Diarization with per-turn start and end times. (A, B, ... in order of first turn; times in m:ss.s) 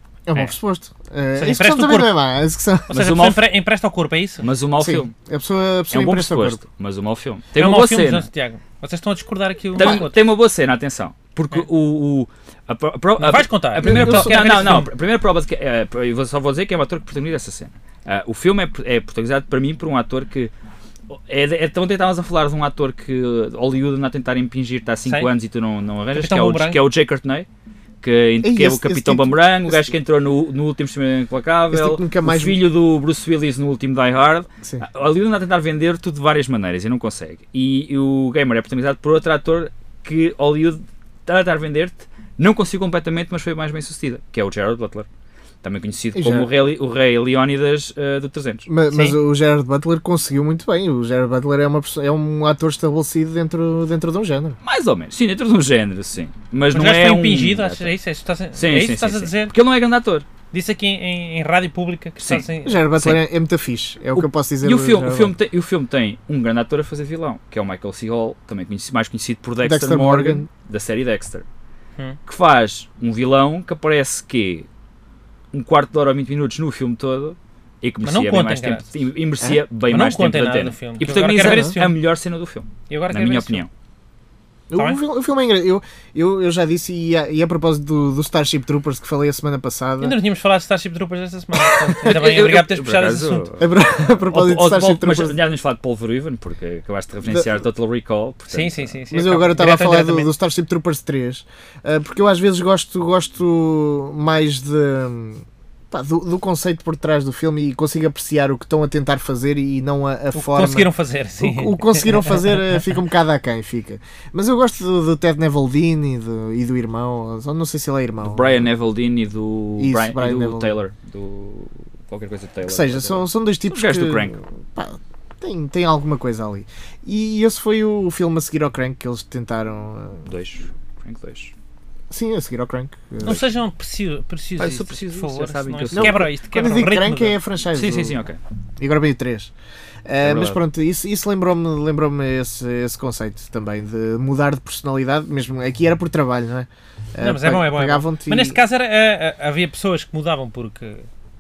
0:00.3-0:02.9 A
0:01.4-0:02.2 B
0:02.9-0:04.5 B
0:02.9-0:03.4 C
0:04.4-0:05.1 C
0:04.8-0:06.6 A
0:05.9-0:08.3 C
0:07.6-0:10.2 B
0:09.8-0:20.5 C
0:13.2-0:14.9 B
0:13.8-0:14.9 A
0:21.1-0:27.5 C
0:25.1-0:25.3 B
0:26.1-0:26.8 B
0:28.0-0:45.1 C
0:28.4-0:29.9 A
0:31.7-0:32.6 A
0:45.6-0:48.7 C
0:46.2-0:46.5 A
0:48.7-0:54.6 A
0:48.9-0:49.2 B
0:54.6-0:57.9 C
0:56.7-0:59.6 B
0:58.6-1:00.3 C
1:00.5-1:02.9 B
1:02.2-1:03.2 C
1:02.6-1:05.4 A
1:04.2-1:11.4 C
1:09.6-1:10.5 A
1:12.3-1:14.7 C
1:15.5-1:23.7 C
1:18.0-1:18.9 B
1:19.9-1:22.0 B
1:21.1-1:21.8 A
1:22.9-1:23.6 B
1:24.7-1:30.2 A
1:30.0-1:33.5 B
1:32.0-1:38.9 C
1:33.6-1:35.4 A
1:38.5-1:40.3 B
1:39.1-1:58.7 A
1:50.3-1:52.8 B
1:58.2-2:04.4 C
1:59.8-2:00.8 A
2:02.6-2:10.3 A
2:10.3-2:11.5 C
2:12.1-2:13.4 A
2:13.2-2:17.4 B
2:14.6-2:16.3 C
2:15.9-2:18.2 A
2:17.7-2:18.4 C
2:18.8-2:19.5 A
2:20.1-2:28.6 A
2:20.2-2:20.6 C
2:27.2-2:31.1 B